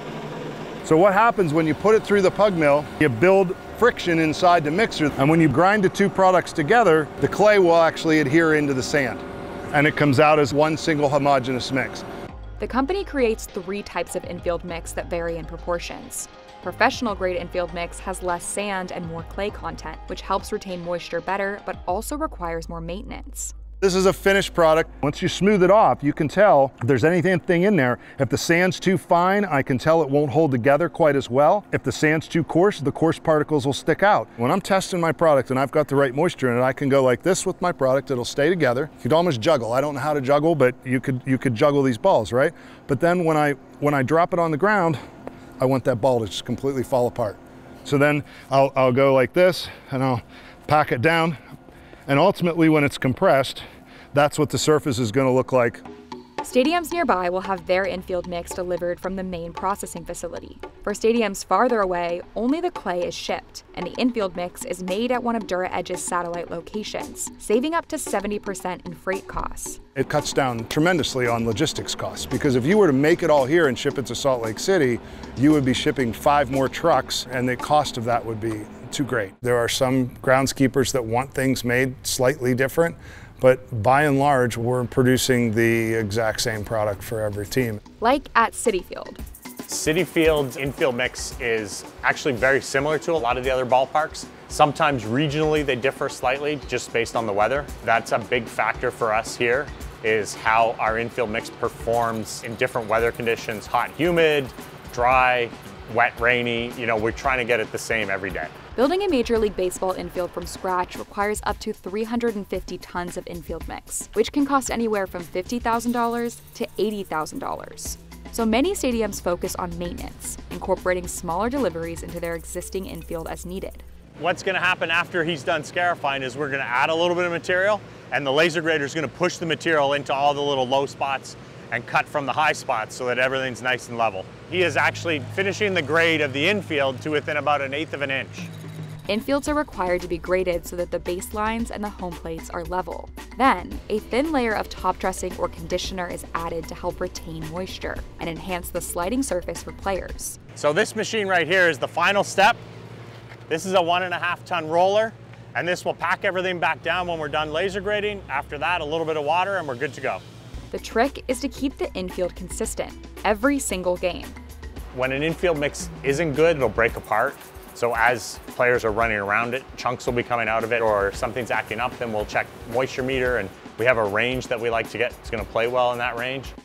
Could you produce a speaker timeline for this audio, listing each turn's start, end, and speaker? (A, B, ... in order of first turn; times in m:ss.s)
0:00.8-0:12.0 A
0:12.6-0:23.5 B
0:23.8-0:45.0 A
0:45.6-0:51.4 A
0:52.1-0:55.8 A
0:56.4-1:09.8 B
1:09.9-1:27.8 A
1:28.0-1:29.2 B
1:29.7-1:48.5 C
1:48.8-2:03.8 B
2:04.2-2:18.5 C
2:19.1-2:30.4 B
2:30.6-2:32.6 C
2:33.5-2:40.2 C
2:40.7-2:44.4 B
2:44.9-2:56.5 C